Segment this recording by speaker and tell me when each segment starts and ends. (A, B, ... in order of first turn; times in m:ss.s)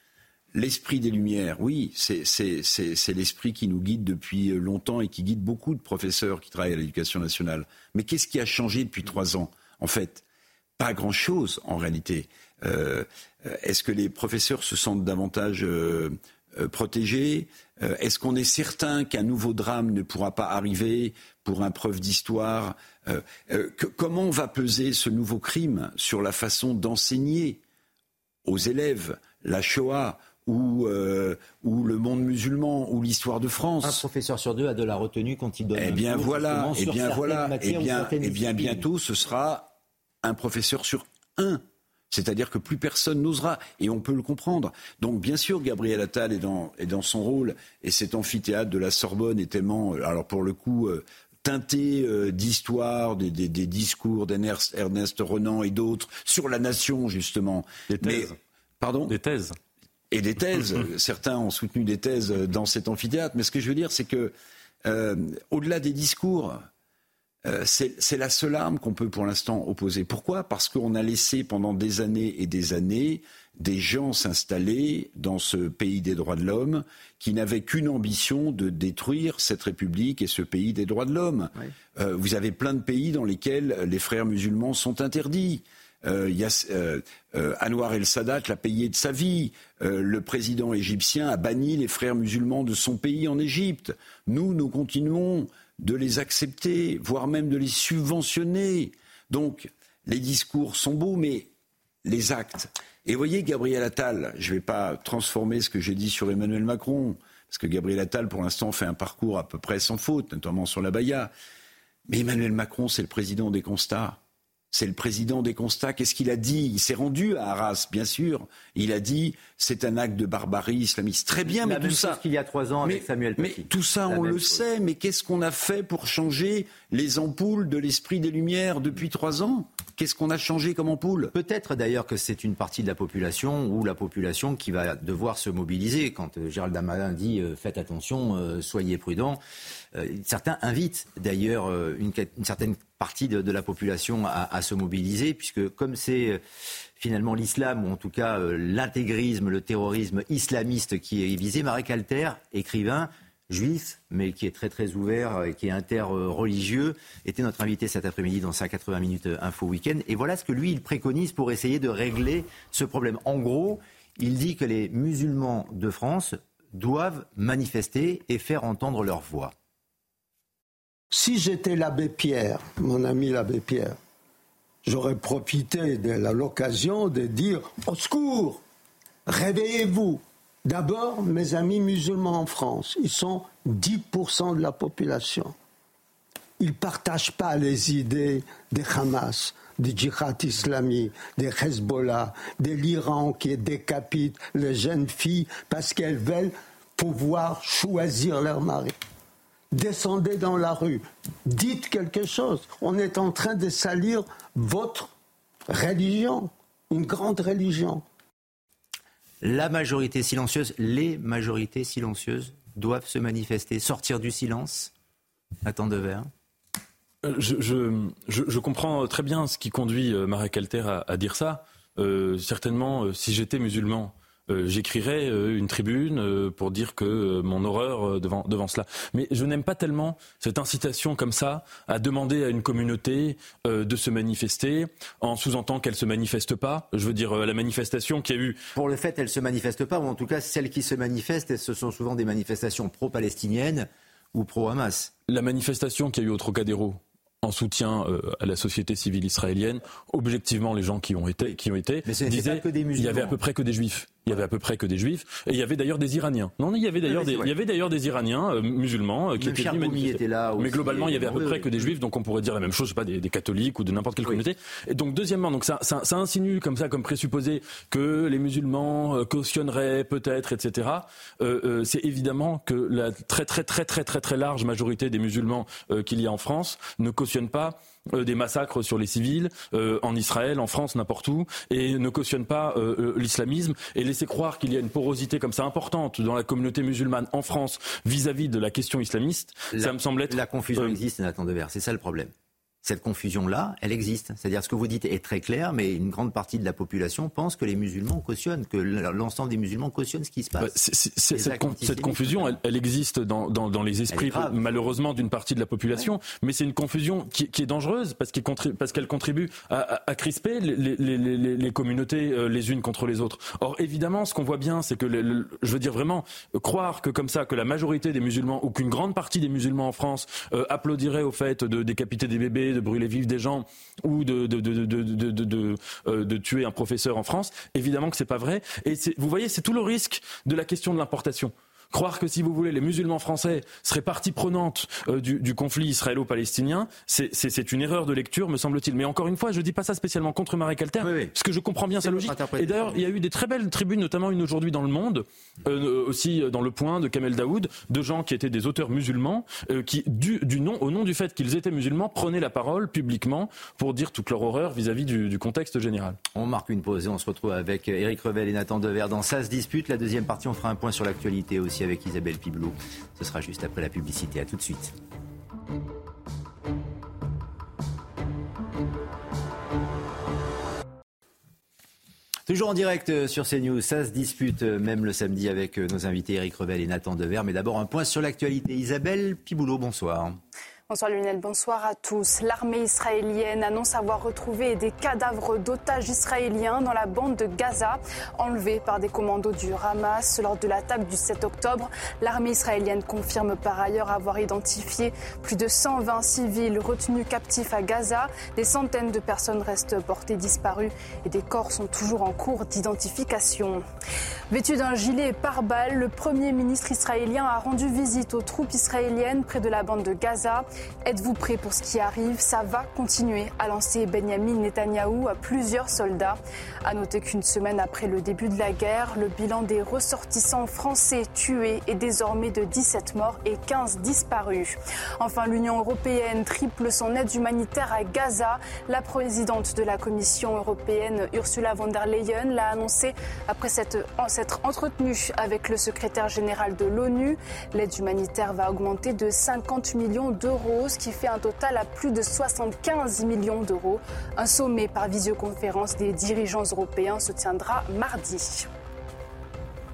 0:00.5-0:10.2 A
0:10.8-0:27.6 A
0:28.4-0:34.0 A
0:33.8-0:38.9 B
0:35.8-0:59.2 A
0:57.9-0:58.4 C
0:59.1-0:59.6 C
1:00.1-1:04.3 A
1:04.8-1:06.6 A
1:07.4-1:41.5 A
1:42.0-1:51.3 A
1:52.1-1:54.2 A
1:54.7-2:02.2 A
2:01.5-2:04.6 B
2:02.8-2:11.3 A
2:11.3-2:19.4 B
2:19.9-2:26.4 B
2:27.0-2:49.5 B
2:51.1-2:54.0 D
2:54.8-2:58.6 D
2:59.3-3:05.5 D
3:06.6-3:19.0 D
3:19.7-3:25.1 D
3:25.7-3:28.0 D
3:29.4-3:34.9 B
3:35.6-3:36.3 B
3:37.2-3:58.6 C
3:58.8-4:05.1 B
4:05.3-4:51.0 C
4:12.1-4:13.4 B
4:17.0-4:17.5 B
4:19.4-4:21.9 B
4:49.7-4:52.3 B
4:52.8-5:00.8 B
5:00.6-5:56.2 C
5:01.3-5:02.6 B
5:04.1-5:04.9 B
5:41.0-5:41.3 B
5:42.0-5:43.0 B
5:56.4-6:05.0 B
6:12.5-6:20.4 B
6:20.9-6:43.8 E
6:44.5-7:28.7 E